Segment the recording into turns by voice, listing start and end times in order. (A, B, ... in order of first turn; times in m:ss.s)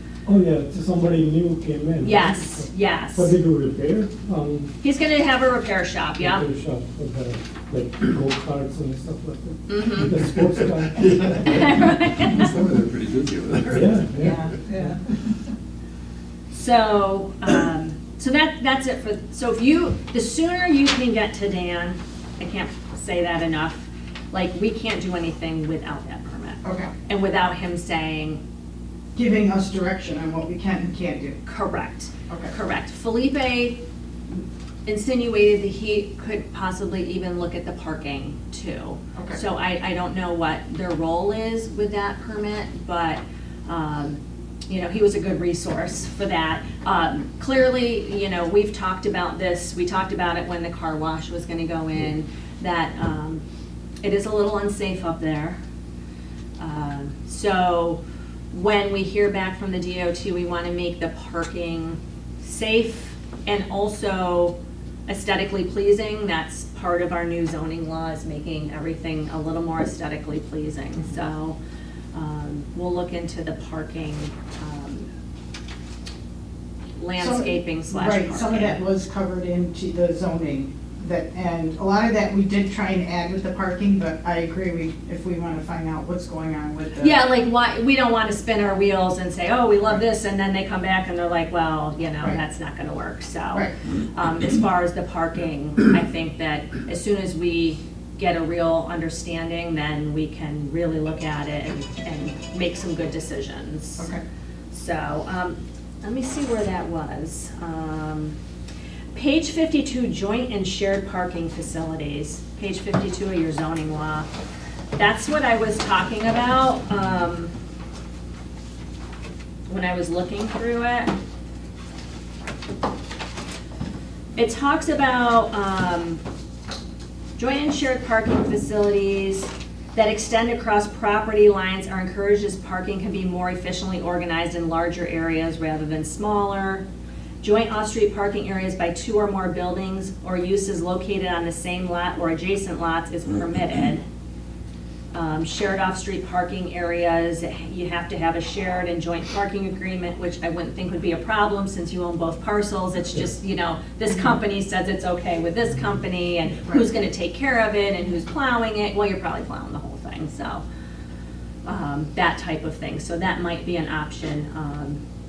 0:00.2-0:04.7 A
0:02.0-0:03.3 B
0:04.8-0:06.4 B
0:06.2-0:11.6 A
0:09.7-0:10.1 B
0:11.1-0:11.7 C
0:11.4-0:12.6 B
0:12.3-0:14.1 C
0:13.7-0:14.8 A
0:16.5-0:28.4 B
0:26.6-0:26.9 D
0:29.2-0:31.4 D
0:31.4-0:33.8 B
0:32.3-0:32.5 D
0:34.8-0:53.4 B
0:39.1-0:39.4 D
0:54.0-0:55.6 B
0:56.6-0:58.0 B
0:58.5-1:04.5 B
1:05.1-1:11.6 B
1:12.1-1:15.1 B
1:17.0-1:18.8 B
1:17.2-1:27.2 D
1:27.0-1:44.1 B
1:44.7-1:48.4 B
1:49.1-1:54.3 B
1:55.0-1:57.5 B
1:59.7-2:01.1 B
2:04.4-2:06.2 B
2:07.4-2:16.8 B
2:17.4-2:24.0 B
2:25.1-2:40.6 B
2:41.6-2:45.0 B